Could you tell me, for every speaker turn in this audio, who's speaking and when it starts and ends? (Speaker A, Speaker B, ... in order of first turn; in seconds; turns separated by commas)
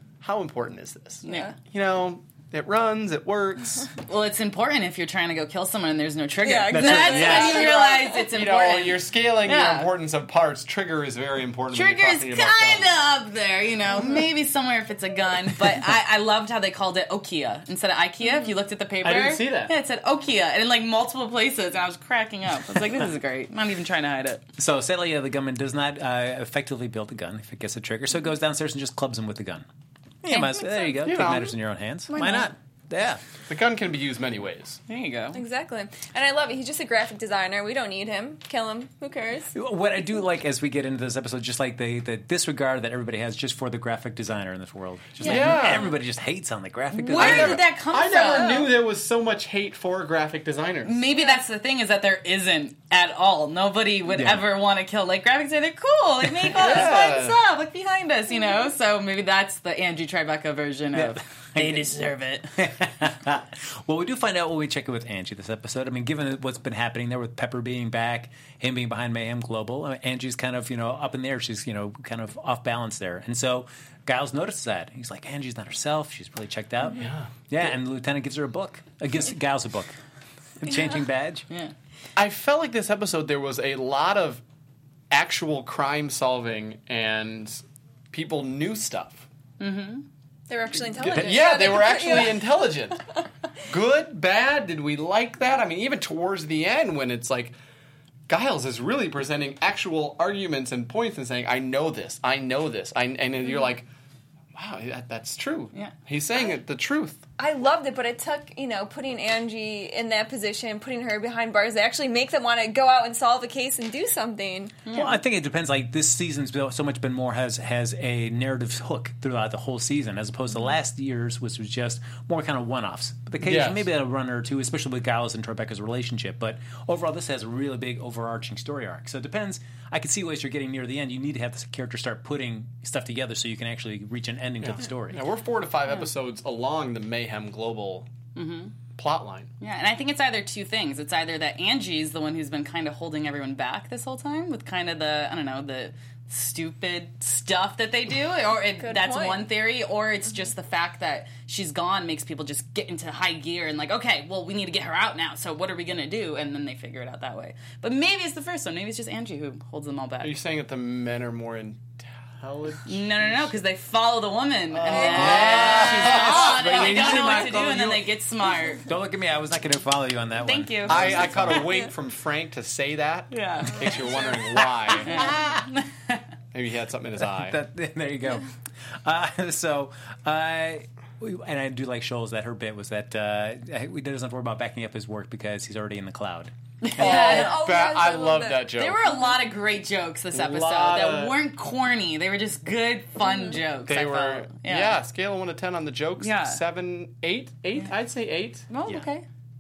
Speaker A: 0.2-3.9, Speaker B: 1.2-1.5, Speaker C: 1.3-1.5, Speaker B: 4.0-9.9, Speaker C: 6.4-8.3, Speaker D: 6.7-7.7, Speaker A: 7.4-12.9, Speaker B: 11.7-24.4, Speaker A: 19.0-19.7, Speaker D: 24.6-29.6, Speaker D: 30.2-33.2, Speaker B: 30.3-30.8, Speaker A: 31.0-31.5, Speaker C: 32.1-32.4, Speaker A: 33.5-34.8, Speaker B: 34.9-35.4, Speaker C: 35.3-39.5, Speaker D: 39.5-47.7, Speaker C: 45.2-45.9, Speaker A: 45.2-45.9, Speaker B: 46.9-48.7, Speaker A: 47.1-51.0, Speaker C: 48.1-48.7, Speaker B: 50.8-62.6, Speaker D: 54.1-54.5, Speaker A: 56.5-57.4, Speaker D: 60.9-61.9, Speaker D: 62.6-80.0, Speaker A: 76.9-77.3, Speaker D: 80.6-81.5, Speaker A: 82.2-84.4, Speaker A: 85.1-89.2, Speaker B: 89.6-90.0, Speaker C: 90.5-92.5, Speaker A: 91.0-93.0, Speaker A: 93.7-97.5, Speaker A: 98.3-103.9, Speaker A: 104.5-107.2, Speaker C: 107.4-114.9, Speaker B: 114.8-115.2, Speaker D: 114.9-135.2, Speaker A: 123.4-123.9, Speaker A: 134.6-138.1, Speaker B: 138.3-138.8, Speaker A: 138.9-139.5, Speaker B: 139.6-160.3, Speaker C: 148.8-149.5, Speaker A: 160.2-163.4, Speaker B: 162.9-168.9, Speaker D: 164.7-168.1, Speaker A: 164.9-167.8, Speaker C: 165.0-165.6, Speaker D: 168.8-171.7, Speaker B: 170.4-171.6, Speaker A: 170.8-175.3, Speaker B: 173.3-176.2, Speaker C: 173.9-174.3, Speaker D: 175.1-175.7, Speaker A: 176.5-177.6, Speaker D: 177.3-178.5, Speaker D: 179.0-186.5, Speaker B: 186.8-187.6, Speaker A: 187.0-189.0, Speaker C: 187.0-188.7, Speaker B: 188.7-195.0, Speaker A: 190.3-191.4, Speaker A: 193.8-198.7, Speaker B: 196.2-196.6, Speaker B: 198.7-199.2